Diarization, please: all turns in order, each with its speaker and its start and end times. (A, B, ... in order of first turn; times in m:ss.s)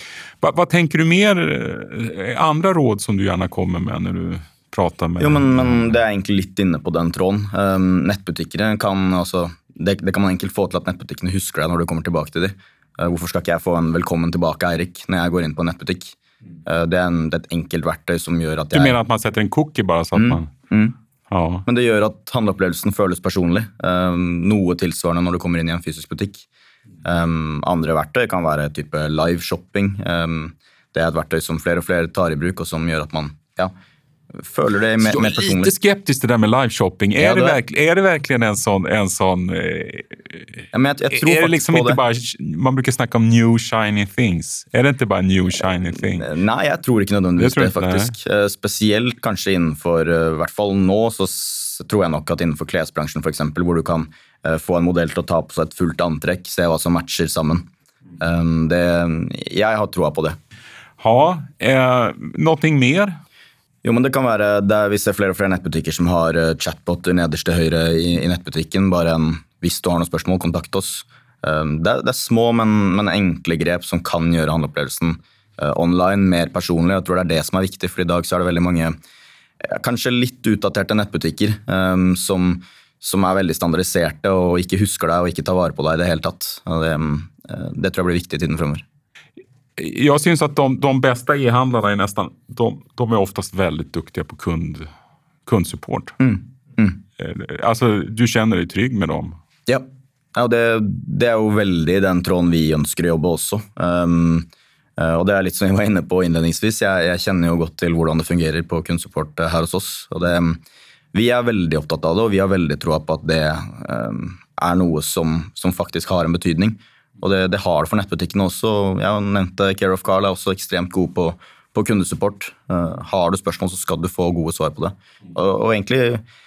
0:00.4-0:05.9 A
0:05.2-0:19.0 B
0:18.7-0:20.5 A
0:20.2-0:21.0 B
0:21.3-0:21.6 A
0:21.6-0:26.4 B
0:27.0-0:33.7 B
0:34.3-0:35.7 B
0:35.0-0:46.3 A
0:37.2-0:37.6 B
0:40.7-0:42.0 B
0:46.2-0:57.7 B
0:47.4-0:48.1 A
0:58.2-1:00.4 B
1:01.0-1:03.2 A
1:03.8-1:18.9 B
1:19.6-1:28.8 B
1:29.8-1:34.9 A
1:35.4-1:36.2 A
1:36.2-1:37.0 B
1:37.2-1:39.4 A
1:39.7-1:44.5 B
1:45.0-1:50.6 B
1:51.1-2:06.2 B